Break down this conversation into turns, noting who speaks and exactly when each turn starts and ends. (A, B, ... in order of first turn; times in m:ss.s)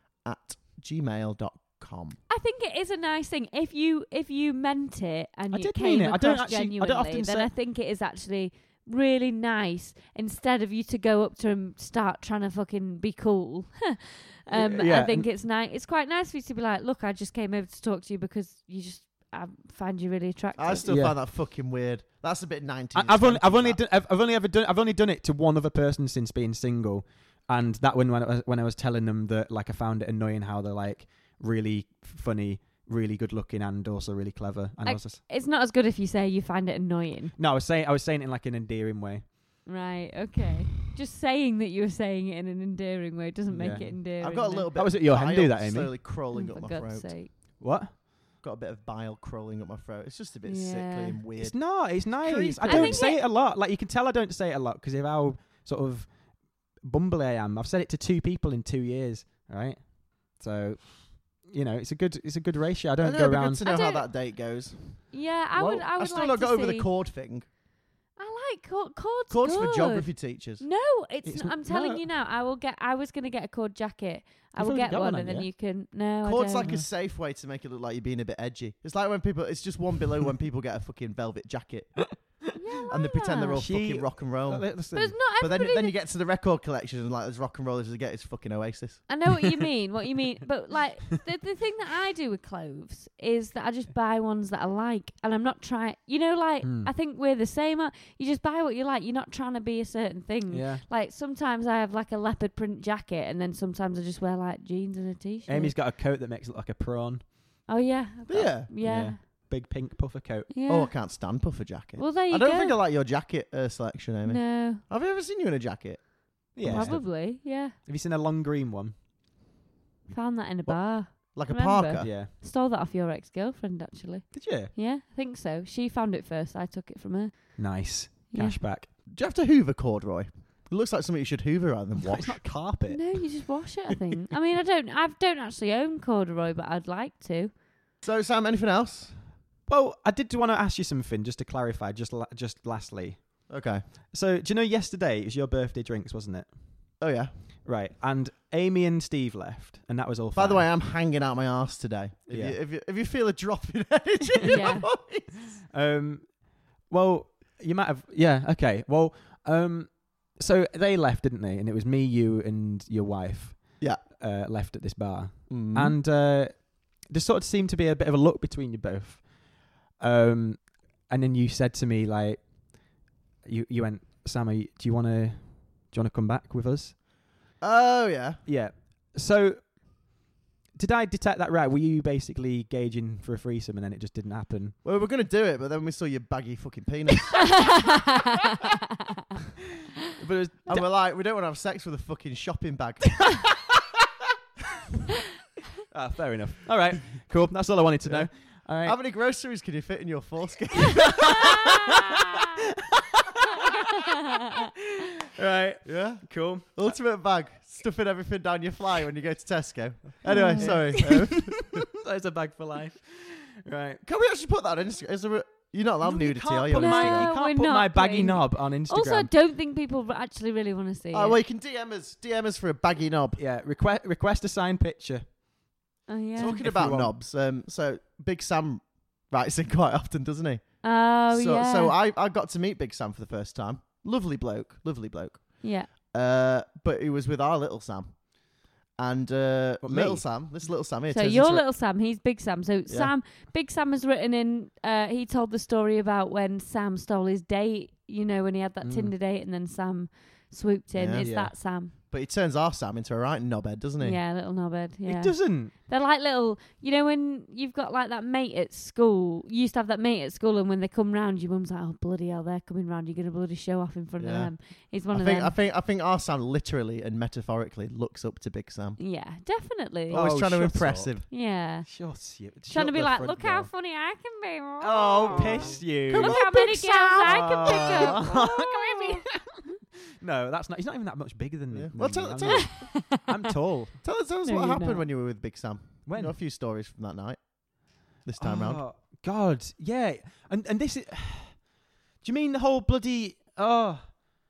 0:00.2-0:02.2 A
0:02.3-0:20.9 B
0:05.5-0:07.5 C
0:14.5-0:15.3 C
0:20.6-0:23.8 A
0:20.9-0:21.2 C
0:23.0-0:35.2 C
0:34.8-0:37.4 B
0:37.4-0:39.4 C
0:39.7-0:44.7 B
0:43.5-0:44.0 C
0:44.2-0:47.1 A
0:44.8-0:45.9 C
0:46.3-0:47.3 B
0:47.6-0:47.9 C
0:48.4-0:53.1 A
0:50.4-0:51.2 B
0:51.4-0:56.2 C
0:52.6-0:53.2 B
0:56.8-1:03.7 C
1:03.0-1:05.0 A
1:03.6-1:04.1 B
1:05.1-1:06.9 B
1:05.6-1:05.8 C
1:05.8-1:07.5 A
1:08.2-1:16.7 B
1:09.3-1:10.6 A
1:11.2-1:12.0 C
1:14.6-1:15.5 C
1:16.2-1:22.2 A
1:16.6-1:16.9 C
1:22.6-1:23.6 B
1:22.9-1:24.7 A
1:23.6-1:25.2 C
1:25.0-1:26.0 B
1:25.4-1:29.0 A
1:29.1-1:45.7 B
1:36.6-1:36.9 C
1:40.5-1:40.8 C
1:45.5-1:47.4 C
1:47.7-1:49.2 B
1:48.3-1:48.7 A
1:48.8-1:50.5 C
1:50.5-1:50.9 B
1:50.7-1:57.0 A
1:52.0-1:52.8 B
1:54.3-1:54.8 B
1:56.6-1:59.0 C
1:56.6-1:57.8 B
2:00.1-2:07.7 B
2:00.7-2:02.1 A
2:02.0-2:02.3 C
2:04.3-2:04.7 C
2:07.6-2:08.9 C
2:08.3-2:08.6 B
2:09.1-2:12.5 A
2:12.0-2:13.3 C
2:12.9-2:17.5 B
2:18.0-2:19.2 A
2:19.7-2:23.5 C
2:23.5-2:23.8 A
2:24.1-2:26.5 C
2:27.0-2:27.3 A
2:27.6-2:30.7 C
2:30.3-2:35.6 A
2:32.3-2:32.6 C
2:34.4-2:34.9 C
2:34.5-2:34.9 B
2:35.7-2:49.3 C
2:45.5-2:46.0 A
2:50.0-2:52.4 C
2:53.4-2:57.0 C
2:57.6-2:58.4 A
2:58.5-2:59.9 C
3:00.8-3:04.8 C
3:04.8-3:07.8 A
3:07.4-3:08.6 B
3:10.2-3:10.9 C
3:10.7-3:13.4 A
3:13.2-3:13.8 C
3:15.9-3:19.0 C
3:18.0-3:18.3 A
3:18.8-3:21.7 A
3:20.8-3:27.0 C
3:25.8-3:31.8 A
3:30.3-3:30.9 B
3:30.6-3:34.0 C
3:34.0-3:37.3 A
3:36.0-3:39.3 C
3:36.8-3:41.4 B
3:41.1-3:43.4 A
3:43.4-3:45.4 C
3:46.1-3:46.6 B
3:46.4-3:47.2 C
3:46.4-4:01.6 A
3:50.8-3:52.0 B
3:55.6-3:55.9 B
3:59.8-4:00.2 C
4:01.1-4:11.9 B
4:02.9-4:03.1 A
4:08.8-4:09.1 C
4:11.0-4:14.2 A
4:14.0-4:25.6 B
4:15.1-4:15.7 C
4:24.2-4:24.5 A
4:25.1-4:29.0 A
4:29.0-4:30.2 B
4:30.1-4:31.3 A
4:30.1-4:31.3 C
4:31.3-4:31.9 B
4:31.8-4:33.7 C
4:32.7-4:39.2 B
4:34.8-4:36.6 C
4:35.3-4:38.4 A
4:37.2-4:44.0 C
4:41.7-4:42.9 A
4:42.5-4:43.2 B
4:44.0-4:47.5 A
4:44.4-4:45.0 B
4:46.1-4:46.4 C
4:48.1-4:48.8 A
4:48.4-4:51.7 C
4:52.2-4:54.2 C